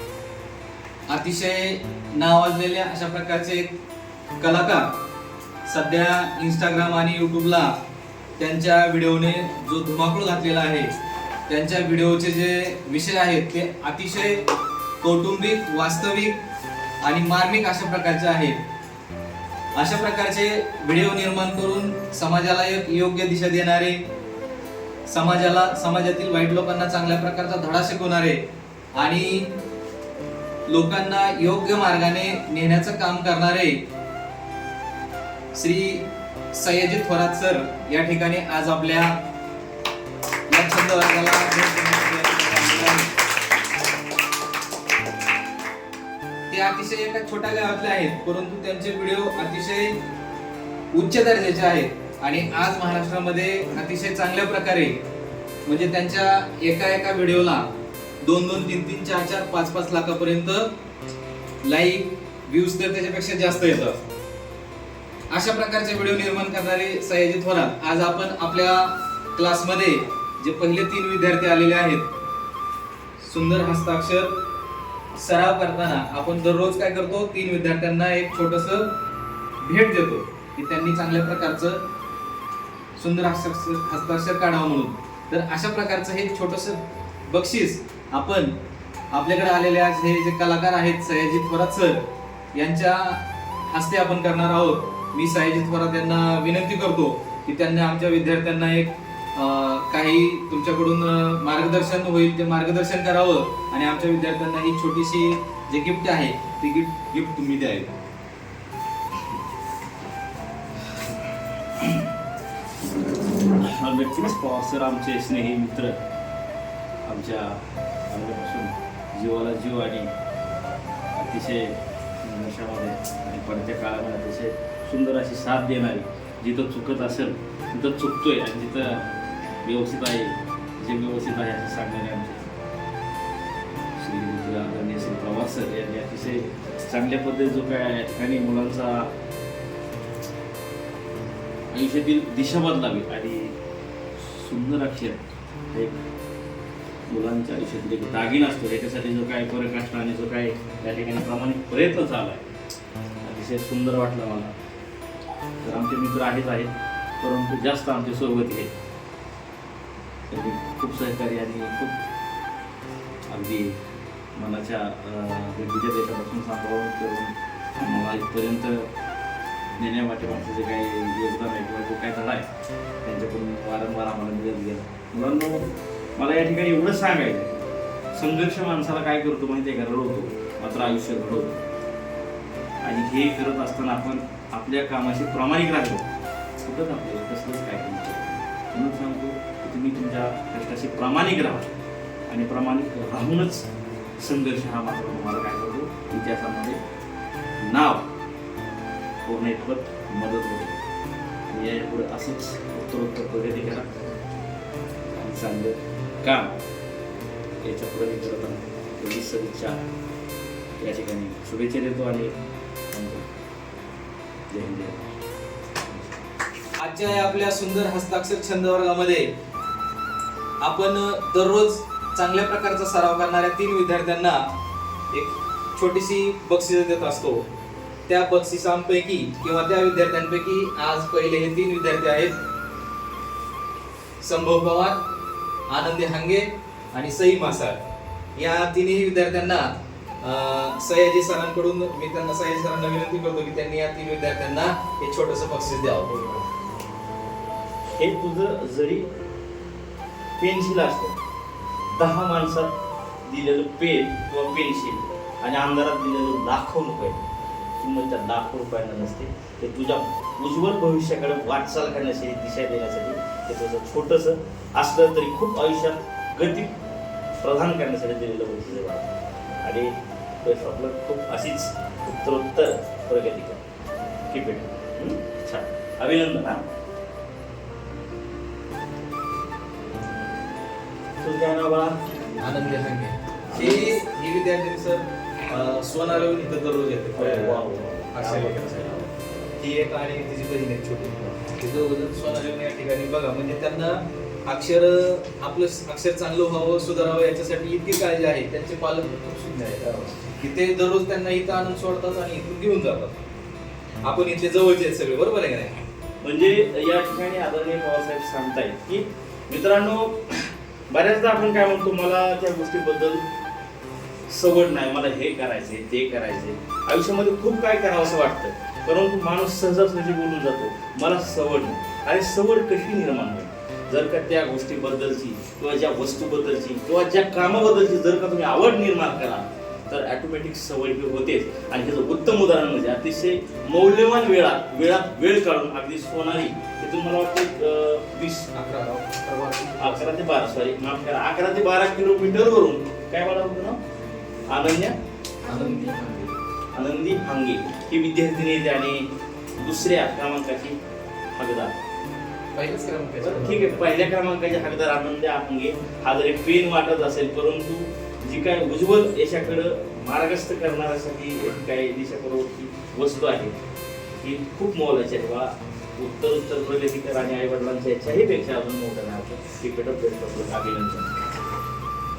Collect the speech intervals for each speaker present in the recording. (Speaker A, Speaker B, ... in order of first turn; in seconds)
Speaker A: 1.1-3.8, 4.4-4.9, 5.7-7.8, 8.4-10.9, 11.5-14.5, 15.0-16.4, 17.0-18.6, 19.8-24.1, 25.1-29.5, 30.7-33.8, 35.5-39.2, 40.5-43.1, 46.5-50.0, 50.9-55.0, 55.6-57.7, 58.2-60.7, 61.6-64.0, 65.3-72.1, 73.2-74.4, 75.1-78.9, 79.6-81.9, 83.0-88.5, 89.1-108.0, 216.8-219.3, 220.6-224.5, 225.1-227.5, 228.1-232.4, 234.2-235.0, 235.7-237.8, 238.4-246.4, 282.4-288.6, 289.6-303.2, 304.0-305.8, 338.5-340.1, 345.4-346.3, 352.6-354.0
Speaker B: 111.8-112.0, 113.5-116.0, 117.0-120.1, 121.1-129.1, 129.7-132.5, 134.0-139.1, 141.7-143.6, 144.2-146.0, 147.1-152.5, 153.2-154.6, 155.6-158.7, 160.3-162.0, 163.3-163.8, 164.4-168.9, 169.8-172.5, 173.0-177.5, 178.1-181.6, 182.8-186.1, 186.7-191.7, 192.3-196.8, 197.6-198.1, 199.2-200.8, 201.5-203.9, 205.1-206.6, 207.6-209.8, 210.8-212.3, 212.9-213.3, 214.5-215.1, 247.9-249.1, 250.4-251.2, 251.9-252.7, 253.2-257.2, 257.8-266.8, 267.4-269.1, 269.6-269.9, 270.4-273.6, 274.3-276.6, 281.2-282.0, 283.5-283.9, 287.2-289.2, 299.9-300.2, 306.2-313.3, 314.3-338.5, 339.8-343.8, 344.5-345.0, 346.7-349.1, 349.6-350.8, 351.4-351.8, 353.2-363.5, 364.2-371.1